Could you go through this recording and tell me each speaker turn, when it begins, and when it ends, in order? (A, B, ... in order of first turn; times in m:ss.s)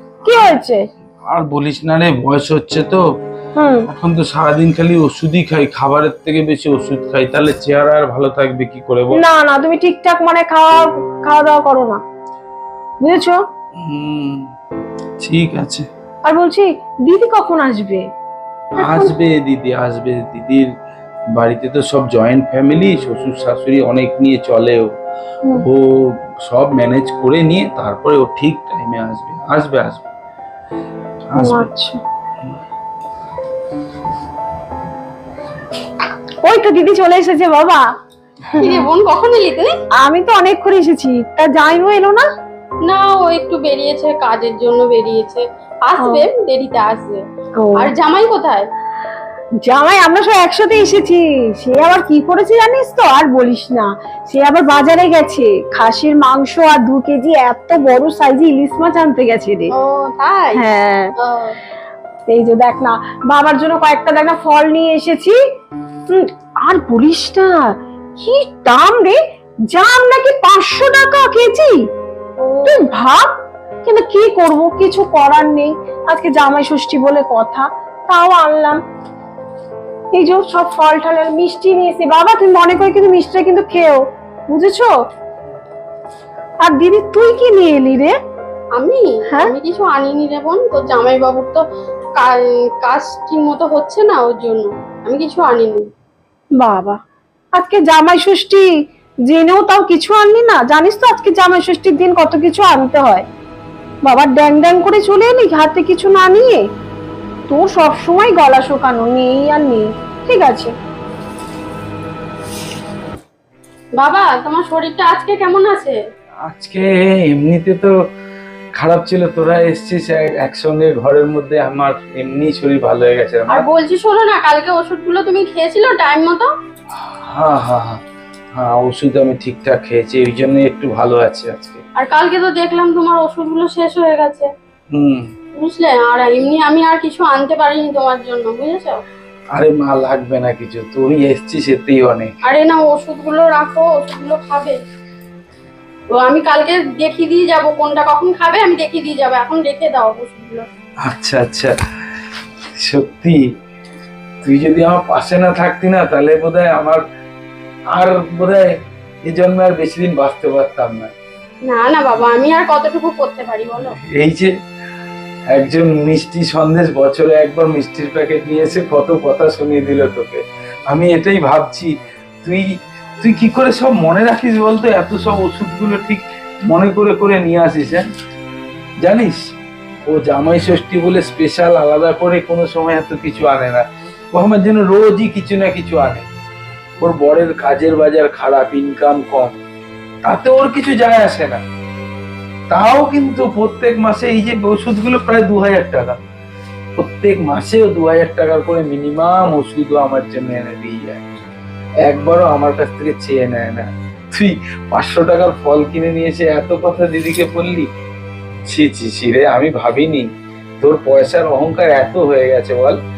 0:00.2-0:00.9 A
0:01.3-0:03.0 B
0:03.6-0:03.9 A
0:03.9-0:09.2 B
0:09.1-0:12.0 A
0:13.0-0:13.4 A
0:13.8-0:14.5 B
0:15.2-0:15.9 B
0:16.3-0:18.1 A
0:18.8-0:19.1 A
0:18.8-0:20.7 B
0:21.3-0:24.9 B
0:25.6-0:30.0 B
0:31.3-0:31.7 B
0:31.4-0:32.0 A
0:36.4-0:37.8 A
0:38.5-0:38.8 A
0:38.6-0:39.7 C
0:40.0-0:42.2 A
0:42.8-0:47.2 C
0:46.0-0:46.3 A
0:47.6-0:47.9 A
0:47.8-0:48.7 C
0:49.6-0:59.7 A
0:59.7-1:00.6 C
1:00.6-1:01.1 A
1:01.2-1:01.6 C
1:02.3-1:05.4 A
1:06.1-1:09.2 A
1:09.7-1:11.8 A
1:12.4-1:12.8 C
1:12.7-1:13.3 A
1:13.8-1:18.8 A
1:20.1-1:24.9 A
1:26.6-1:28.1 A
1:28.8-1:31.6 C
1:32.2-1:35.9 C
1:36.6-1:37.0 A
1:37.6-1:38.7 A
1:39.3-1:43.2 A
1:44.0-1:46.6 A
1:47.5-1:50.7 A
1:54.0-1:56.0 C
1:56.4-1:58.0 B
1:58.8-2:03.7 B
2:03.5-2:06.5 C
2:07.0-2:08.0 B
2:08.6-2:11.8 B
2:12.0-2:14.5 C
2:14.9-2:15.3 B
2:15.6-2:19.0 C
2:19.5-2:22.4 B
2:22.4-2:24.8 C
2:26.1-2:30.7 C
2:31.0-2:31.8 B
2:32.8-2:33.4 B
2:34.4-2:37.0 B
2:37.9-2:38.7 B
2:39.3-2:41.1 B
2:41.7-2:44.0 C
2:44.0-2:44.5 B
2:45.5-2:51.9 B
2:52.4-2:52.7 B
2:53.2-2:58.0 B
2:59.0-2:59.5 B
3:00.1-3:06.3 B
3:07.0-3:09.6 B
3:10.2-3:11.6 B
3:12.7-3:16.2 B
3:17.0-3:21.2 B
3:22.0-3:27.9 B
3:28.7-3:30.3 B
3:30.8-3:33.0 B